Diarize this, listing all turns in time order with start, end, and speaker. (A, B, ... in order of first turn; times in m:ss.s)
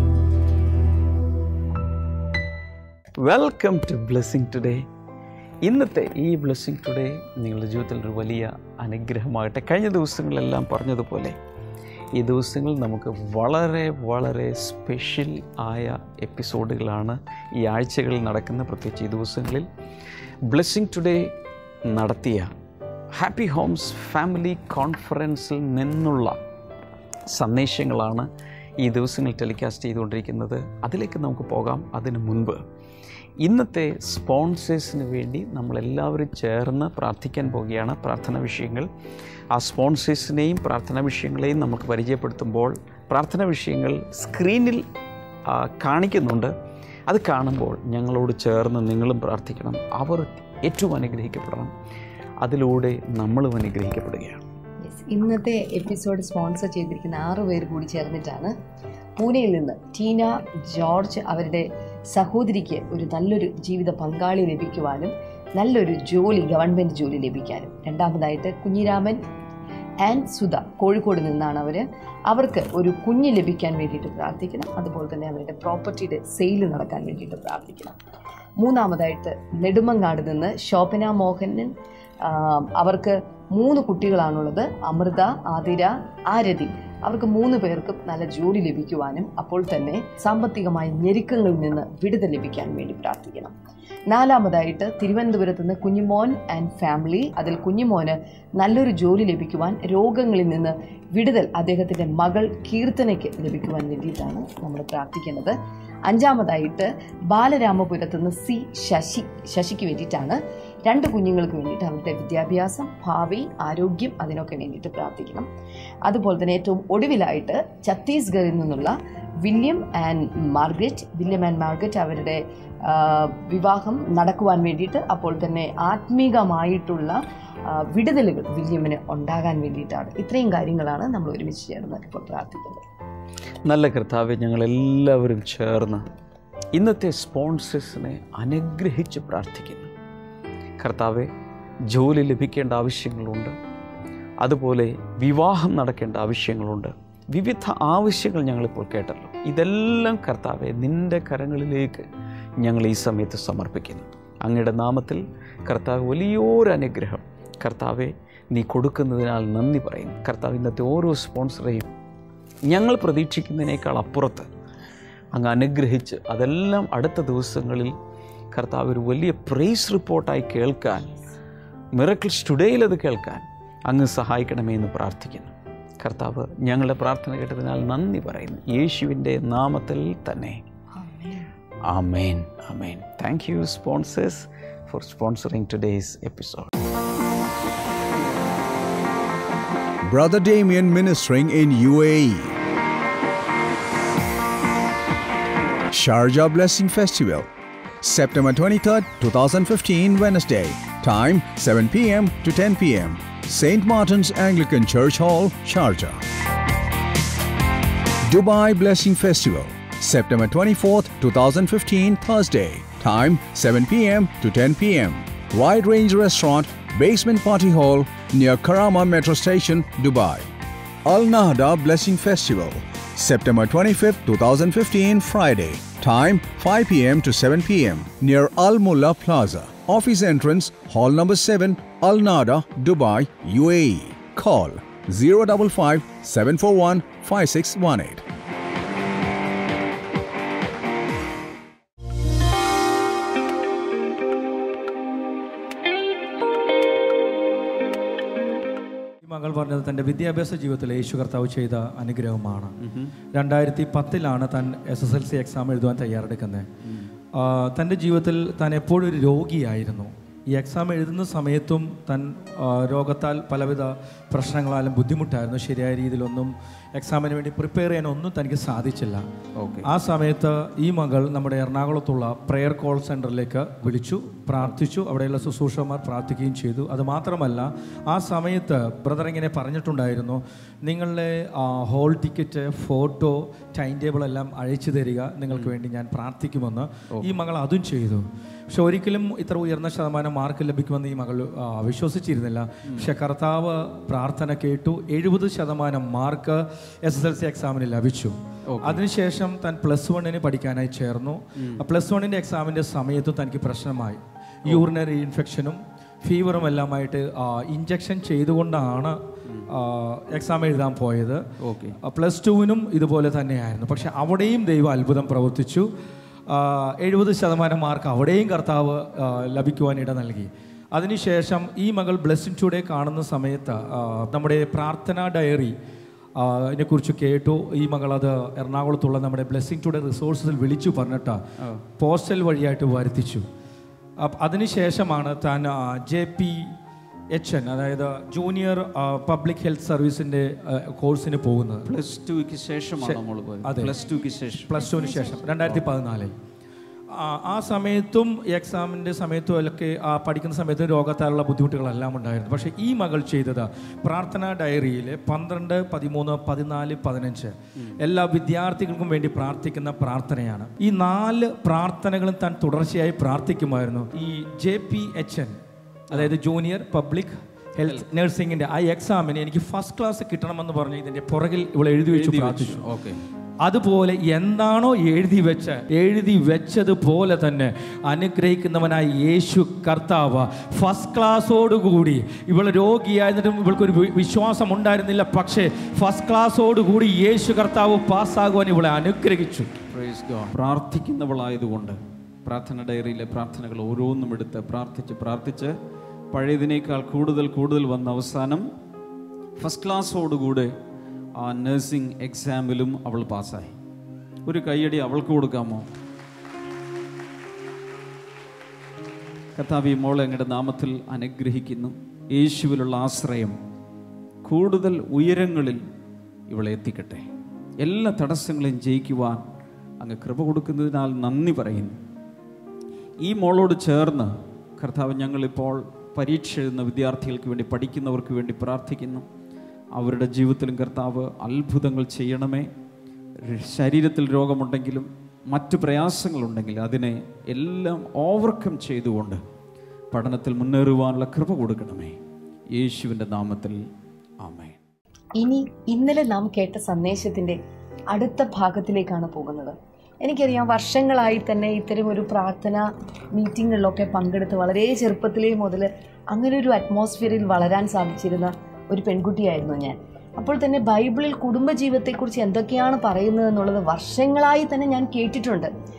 0:03.2-0:04.8 A
0:05.6-0:11.3 A
0:12.2-0:19.7 A
0:20.5-0:21.3 A
0:21.9-0:22.5 A
0:23.1-0:26.4 A
0:27.3-0:28.3 A
0:28.8-0:32.6 A
0:33.4-0:38.9 A
0:39.5-0:44.8 A
0:45.5-0:46.5 A
0:47.1-0:51.7 A
0:52.4-0:54.4 A
0:54.8-0:58.5 B
0:59.2-1:09.2 B
1:10.0-1:18.0 B
1:18.6-1:33.5 B
1:34.1-1:55.5 B
1:56.0-2:12.8 B
2:13.6-2:16.0 A
2:16.7-2:19.9 A
2:20.8-2:21.3 A
2:21.9-2:23.5 A
2:24.4-2:32.0 A
2:32.6-2:41.9 A
2:42.7-2:44.5 A
2:45.3-2:47.9 A
2:48.5-2:51.1 A
2:51.9-3:00.6 A
3:01.0-3:01.5 B
3:01.8-3:06.7 A
3:10.0-3:12.5 C
3:15.9-3:17.5 C
3:18.0-3:26.2 C
3:28.3-3:40.5 C
3:41.0-3:58.2 C
4:09.2-4:12.8 D
4:12.8-4:13.1 E
4:13.3-4:16.7 D
4:16.8-4:17.1 E
4:17.3-4:29.2 D
4:29.6-4:29.9 E
4:29.8-5:11.4 D
4:58.7-4:59.0 E
5:11.6-5:12.0 E
5:12.0-5:15.9 D
5:16.5-5:25.7 D
5:26.4-5:31.4 D
5:32.0-5:33.4 D
5:34.2-5:36.7 D
5:37.3-5:41.9 D
5:41.9-5:44.8 E
5:43.0-5:44.0 D
5:44.6-5:46.3 D
5:47.1-6:05.6 D
6:06.1-6:12.8 D
6:12.1-6:13.2 E
6:13.6-6:29.7 D
6:29.9-6:35.7 E
6:36.3-6:38.7 E
6:39.6-6:40.7 E
6:41.4-6:43.7 E
6:44.4-6:45.9 E
6:49.6-6:53.6 E
6:54.4-6:55.8 E
6:56.5-6:57.2 E
6:57.8-6:59.4 E
7:00.0-7:02.0 E
7:03.2-7:09.2 E
7:10.0-7:12.7 E
7:13.4-7:19.4 E
7:20.1-7:22.2 E
7:22.7-7:23.8 E
7:24.4-7:24.8 E
7:25.4-7:27.6 B
7:28.1-7:45.7 B